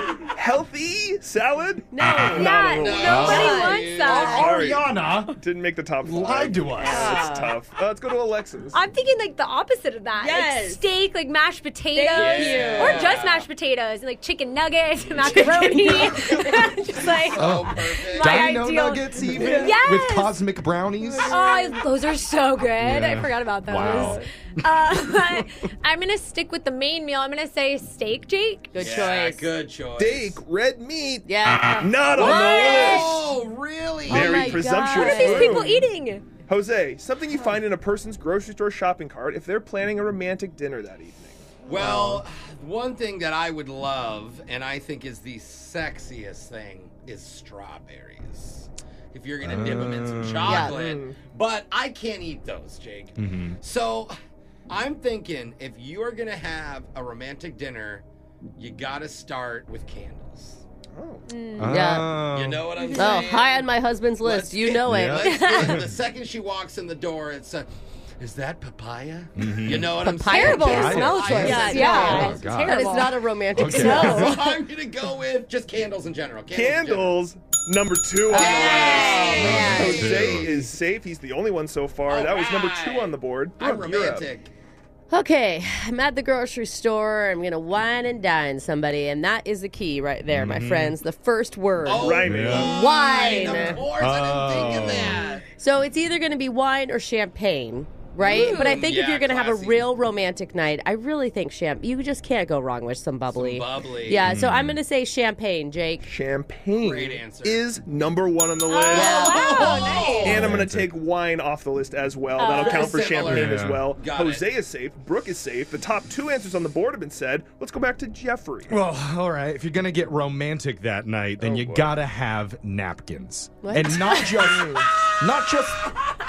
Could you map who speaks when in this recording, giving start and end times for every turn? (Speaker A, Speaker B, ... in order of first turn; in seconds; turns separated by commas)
Speaker A: 0.3-3.4, Speaker B: 1.9-3.8, Speaker C: 2.3-4.5, Speaker D: 2.7-4.5, Speaker E: 3.0-5.4, Speaker A: 4.0-8.8, Speaker E: 6.0-7.2, Speaker B: 6.8-7.5, Speaker C: 8.7-20.4, Speaker B: 10.2-10.8, Speaker B: 11.9-13.2, Speaker D: 12.1-13.5, Speaker B: 15.2-16.6, Speaker D: 17.2-18.6, Speaker E: 17.4-21.4, Speaker B: 19.2-19.7, Speaker B: 21.0-21.8, Speaker C: 21.3-28.8, Speaker E: 22.8-24.2, Speaker B: 23.9-24.2, Speaker B: 28.7-29.4, Speaker D: 28.8-30.4, Speaker A: 30.0-33.3, Speaker B: 31.2-33.0, Speaker D: 32.1-34.7, Speaker C: 32.2-33.0, Speaker A: 34.1-35.9, Speaker B: 34.1-35.7, Speaker C: 34.9-36.3, Speaker A: 36.5-42.2, Speaker D: 41.7-54.1, Speaker E: 49.4-50.6, Speaker B: 50.5-50.8, Speaker A: 50.5-51.2, Speaker E: 53.2-53.6, Speaker D: 54.7-58.0, Speaker D: 58.6-60.6, Speaker A: 60.9-61.3, Speaker C: 61.3-61.9, Speaker E: 61.6-62.7, Speaker B: 61.7-62.1, Speaker D: 62.3-67.7, Speaker C: 62.8-63.2, Speaker B: 63.0-65.5, Speaker E: 64.8-65.9, Speaker C: 65.3-65.8, Speaker D: 68.2-72.4, Speaker E: 69.4-74.4, Speaker B: 69.9-74.4, Speaker C: 70.3-74.5, Speaker D: 73.6-77.2, Speaker A: 76.5-84.3, Speaker B: 78.3-80.2, Speaker D: 78.3-80.5, Speaker E: 79.3-80.7, Speaker D: 82.1-84.5, Speaker B: 85.1-93.8, Speaker E: 90.3-91.0, Speaker D: 91.8-95.4, Speaker A: 92.0-93.7, Speaker E: 92.2-92.8, Speaker E: 93.8-95.3, Speaker B: 95.6-106.1, Speaker D: 98.2-99.9, Speaker D: 103.3-104.2, Speaker E: 104.2-104.8, Speaker A: 106.0-109.5, Speaker D: 106.8-107.7, Speaker C: 108.7-110.4, Speaker B: 108.9-110.1, Speaker D: 108.9-110.4, Speaker A: 110.2-118.8, Speaker E: 110.2-110.9, Speaker C: 112.4-113.0, Speaker D: 112.6-114.5, Speaker E: 113.3-113.9, Speaker E: 118.7-126.0, Speaker A: 121.4-122.0, Speaker B: 123.6-124.3